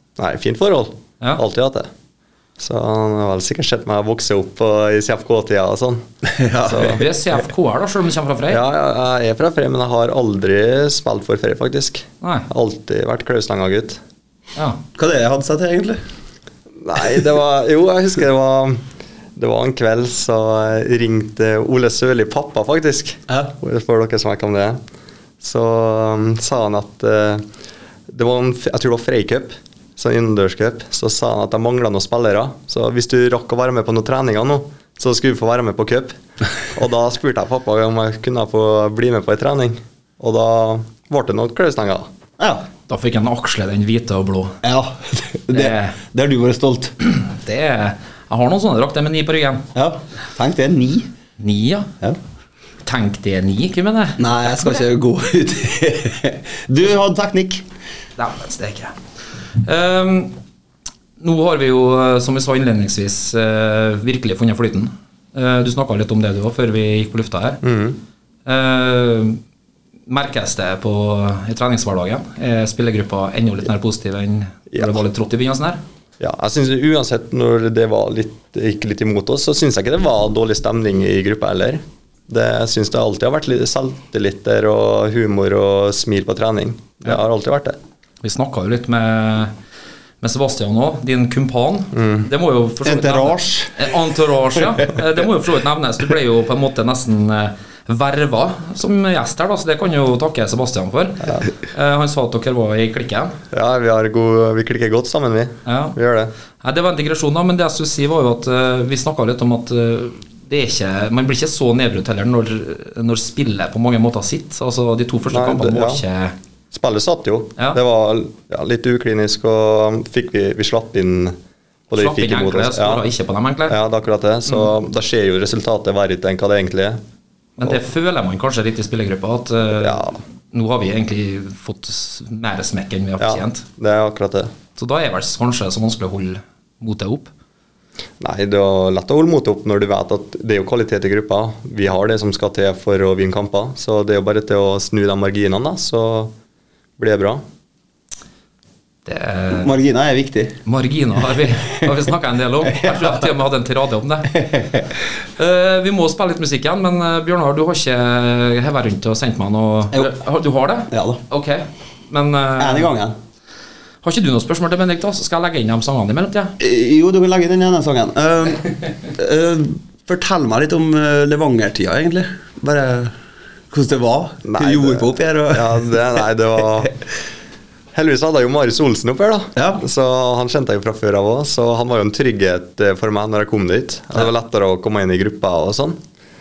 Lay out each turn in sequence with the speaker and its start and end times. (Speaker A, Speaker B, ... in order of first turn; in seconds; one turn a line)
Speaker A: 0.2-1.9
Speaker A: 2.6-6.0
Speaker B: 6.2-7.0
Speaker A: 6.7-7.0
Speaker C: 6.8-8.6
Speaker A: 8.5-14.0
Speaker C: 12.2-12.5
Speaker B: 14.9-16.0
Speaker A: 16.8-18.8
Speaker A: 19.4-24.8
Speaker A: 25.4-27.4
Speaker A: 28.1-36.1
Speaker A: 36.7-42.1
Speaker B: 42.4-42.6
Speaker C: 42.9-44.6
Speaker B: 44.6-46.9
Speaker C: 45.5-46.0
Speaker C: 47.0-49.7
Speaker B: 49.7-51.1
Speaker C: 51.4-51.9
Speaker C: 52.8-54.2
Speaker B: 54.2-57.6
Speaker C: 58.2-59.0
Speaker C: 59.6-60.3
Speaker C: 61.2-67.6
Speaker A: 67.6-68.0
Speaker C: 68.5-69.4
Speaker C: 70.1-75.8
Speaker A: 74.7-75.0
Speaker A: 76.2-87.8
Speaker C: 88.2-89.5
Speaker C: 90.2-103.3
Speaker A: 91.9-92.2
Speaker B: 92.8-93.8
Speaker A: 103.5-106.3
Speaker C: 105.7-106.0
Speaker C: 106.6-116.3
Speaker A: 115.3-116.0
Speaker A: 116.7-121.4
Speaker A: 121.9-123.0
Speaker C: 122.0-123.8
Speaker A: 123.7-127.0
Speaker C: 127.6-133.6
Speaker A: 129.8-130.2
Speaker A: 133.2-134.5
Speaker C: 134.8-137.3
Speaker A: 138.2-146.3
Speaker A: 147.0-147.4
Speaker C: 149.1-149.7
Speaker B: 149.6-150.6
Speaker C: 150.7-154.5
Speaker B: 152.7-153.2
Speaker B: 154.3-154.9
Speaker C: 155.4-162.9
Speaker B: 160.9-161.2
Speaker B: 162.6-163.1
Speaker C: 164.0-166.6
Speaker B: 166.6-173.1
Speaker B: 173.7-176.0
Speaker A: 174.4-176.9
Speaker A: 177.9-186.0
Speaker B: 179.6-179.8